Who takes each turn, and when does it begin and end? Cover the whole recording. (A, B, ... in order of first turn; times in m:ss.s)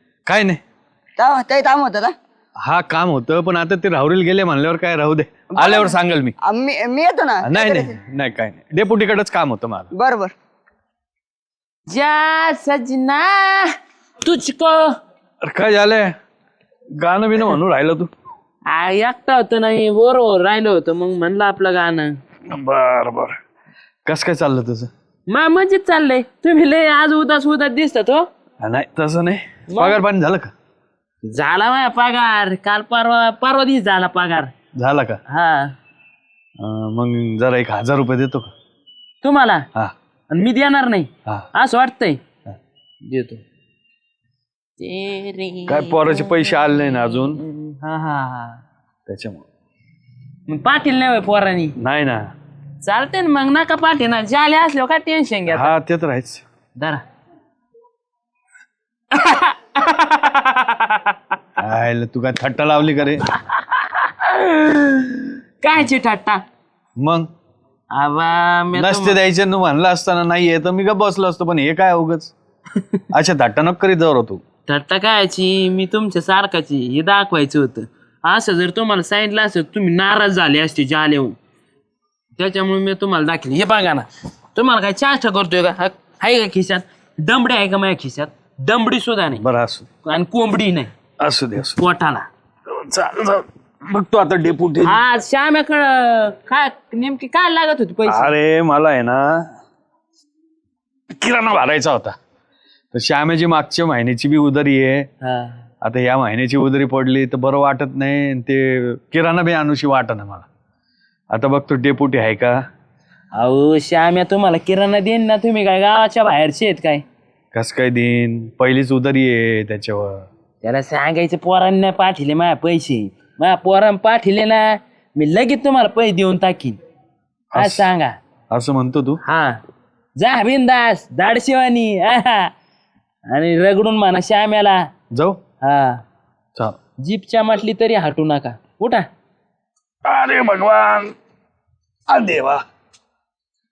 0:00.2-0:00.6 A
0:01.2-0:02.1 B
0:02.6-0:06.3 A
0:05.5-0:07.9 B
0:07.4-0:09.9 A
0:09.9-0:10.3 B
0:11.9-0:15.0 C
0:15.4-0:16.1 A
0:17.0-0:18.1 A
0:18.7-0:22.2 C
0:22.5-0:23.4 A
0:24.0-0:24.9 A
0:25.3-0:28.3 C
0:28.6-0:30.5 A
0:29.7-0:30.0 C
0:31.2-0:34.5 C
0:34.8-0:35.2 A
0:35.3-0:35.7 C
0:36.6-0:38.5 A
0:39.2-0:39.7 C
0:40.3-0:42.2 C
0:43.0-0:43.4 C
0:44.8-0:48.6 C
0:45.7-0:47.4 A
0:49.1-0:49.4 A
0:50.5-0:51.8 C
0:51.8-0:52.3 A
0:52.8-0:55.7 C
0:55.5-0:56.4 A
0:56.8-0:57.0 C
0:59.1-1:00.3 C
1:01.6-1:03.2 A
1:03.3-1:06.4 C
1:07.0-1:07.3 A
1:07.9-1:09.2 C
1:08.7-1:12.3 A
1:13.1-1:14.4 A
1:14.7-1:21.4 C
1:22.4-1:29.4 C
1:29.4-1:29.8 A
1:30.0-1:30.9 C
1:31.2-1:31.8 A
1:31.7-1:32.3 C
1:32.7-1:34.9 A
1:34.8-1:38.3 C
1:38.1-1:39.5 A
1:41.1-1:42.2 A
1:42.9-1:45.1 A
1:45.2-1:45.6 C
1:45.8-1:50.4 A
1:51.3-1:52.6 A
1:53.3-1:57.0 C
1:57.5-2:00.2 A
2:00.6-2:06.8 C
2:07.5-2:07.8 A
2:07.5-2:08.2 C
2:08.5-2:09.2 A
2:09.2-2:09.6 C
2:10.2-2:12.5 C
2:13.3-2:14.9 C
2:15.1-2:15.4 A
2:15.6-2:16.0 C
2:17.0-2:19.1 C
2:20.0-2:21.1 A
2:22.1-2:22.6 A